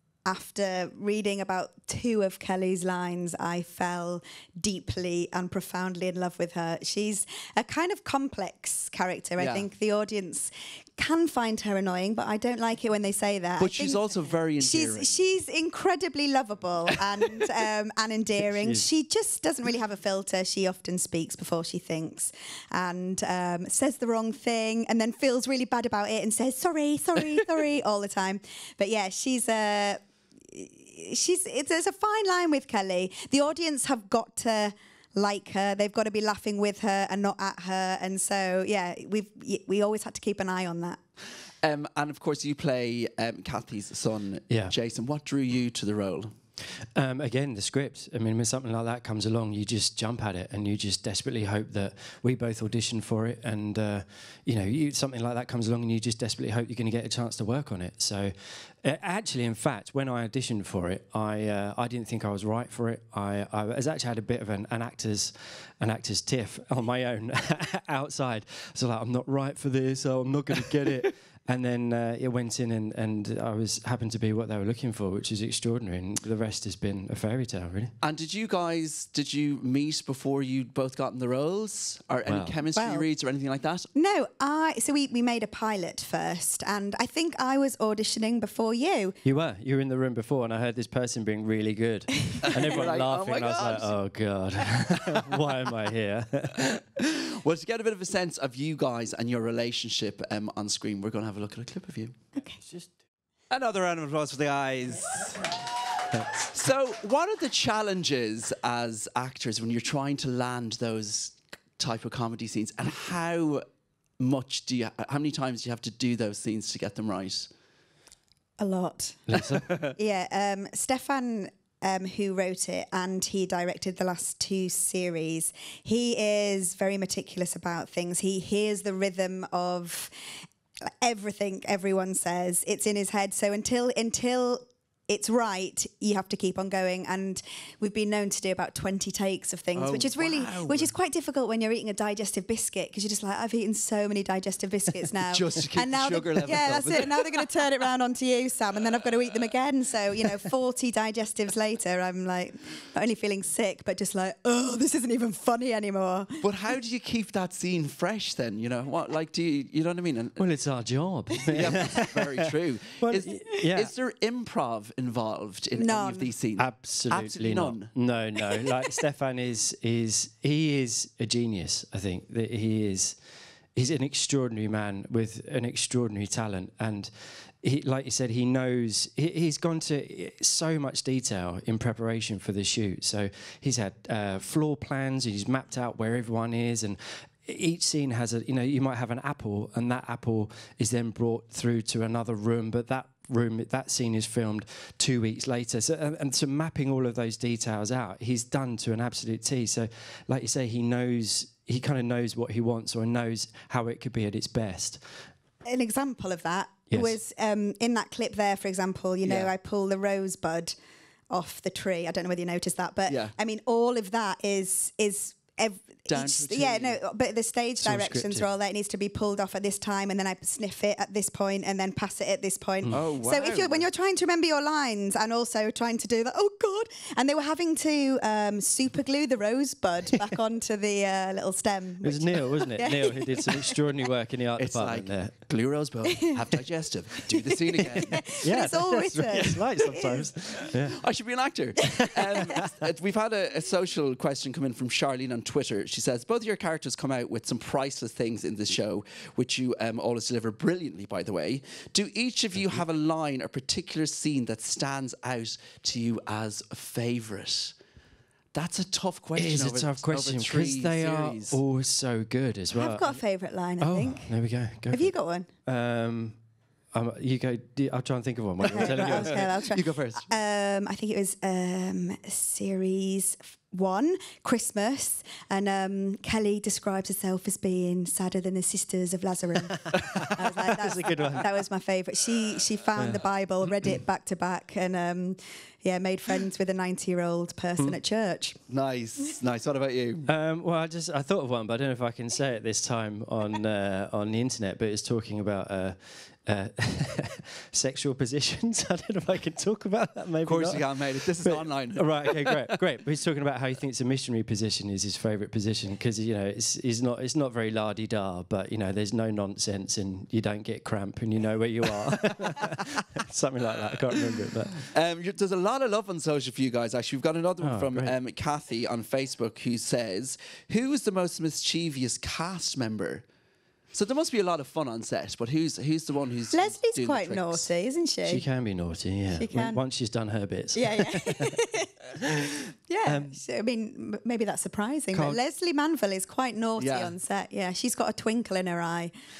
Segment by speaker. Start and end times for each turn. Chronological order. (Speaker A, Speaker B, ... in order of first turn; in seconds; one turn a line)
Speaker A: 0.3-41.0
Speaker B: 9.4-9.7
Speaker B: 13.6-15.2
Speaker B: 41.6-46.3
Speaker C: 47.0-77.9
Speaker B: 78.0-83.9
Speaker C: 82.3-82.6
Speaker A: 82.7-83.1
Speaker A: 84.0-89.2
Speaker C: 89.2-96.8
Speaker B: 92.4-94.0
Speaker B: 97.0-102.1
Speaker A: 102.4-102.6
Speaker B: 103.5-105.5
Speaker B: 106.5-113.6
Speaker B: 114.2-117.5
Speaker A: 118.6-119.3
Speaker C: 119.3-119.8
Speaker A: 120.0-130.1
Speaker A: 131.0-156.4
Speaker B: 139.8-140.9
Speaker B: 145.2-147.7
Speaker B: 156.4-160.5
Speaker C: 160.4-162.5
Speaker B: 161.5-167.9
Speaker C: 163.0-163.9
Speaker A: 165.8-166.3
Speaker C: 166.6-173.2
Speaker C: 173.8-205.0
Speaker A: 205.7-210.8
Speaker C: 206.9-207.2
Speaker B: 209.2-209.5
Speaker A: 211.3-233.8
Speaker B: 213.1-213.3
Speaker B: 216.1-217.0
Speaker C: 217.8-218.5
Speaker B: 222.9-223.9
Speaker C: 232.0-235.3
Speaker B: 234.6-238.3
Speaker A: 236.1-236.4
Speaker A: 237.3-240.3
Speaker C: 238.4-241.0
Speaker B: 240.7-257.8
Speaker C: 242.3-242.7
Speaker B: 258.5-261.6
Speaker C: 259.4-263.2
Speaker A: 262.7-265.5
Speaker C: 263.8-265.1
Speaker C: 265.7-266.4
Speaker C: 266.9-269.5
Speaker A: 268.6-288.6
Speaker B: 268.6-270.3
Speaker C: 279.7-281.5
Speaker C: 283.0-283.3
Speaker B: 288.7-290.3
Speaker C: 290.2-314.9
Speaker B: 300.4-302.7
Speaker B: 314.9-323.2
Speaker C: 317.6-318.1
Speaker B: 323.9-327.7
Speaker A: 326.5-328.5
Speaker C: 328.2-331.6
Speaker A: 329.3-329.8
Speaker A: 330.7-331.9
Speaker A: 332.9-339.1
Speaker C: 333.1-333.4
Speaker C: 335.1-335.4
Speaker B: 336.8-337.1